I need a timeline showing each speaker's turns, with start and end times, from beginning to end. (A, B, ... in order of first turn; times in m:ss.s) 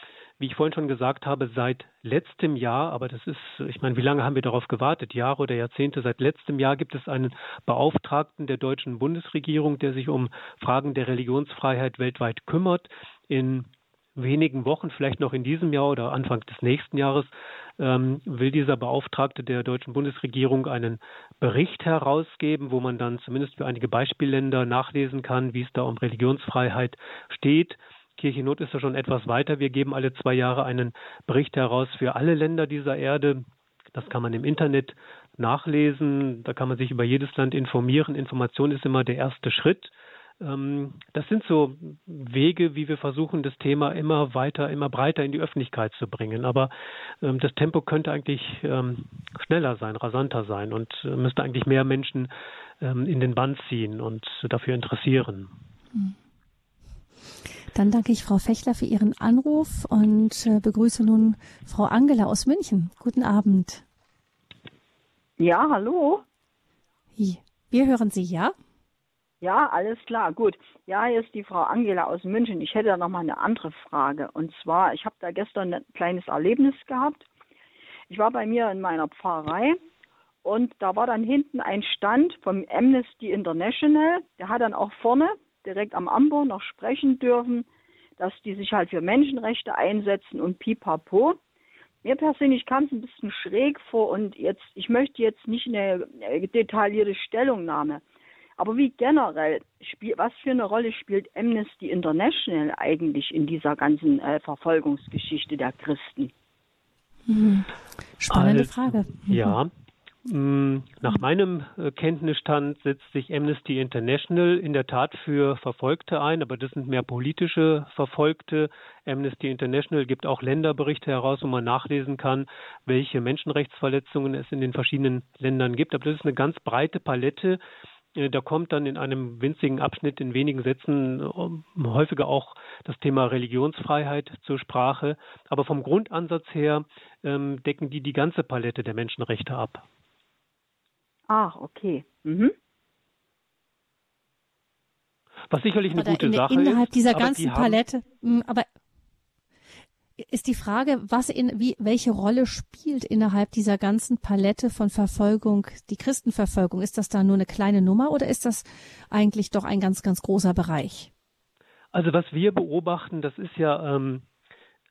0:00.4-0:55.6 A
0:57.7-1:03.8 B
1:05.4-1:06.2 C
1:07.2-1:08.5 B
1:09.4-1:17.3 C
1:18.1-1:19.8 C
1:20.4-1:27.7 C
1:28.2-1:31.4 C
1:32.0-1:38.0 C
1:38.6-1:46.3 C
1:47.3-1:49.6 B
1:48.3-1:49.7 A
1:50.2-2:07.6 A
2:08.1-2:19.8 A
2:21.3-2:22.5 C
2:25.5-2:27.8 A
2:25.9-2:28.6 B
2:30.2-2:41.1 B
2:41.9-2:44.3 A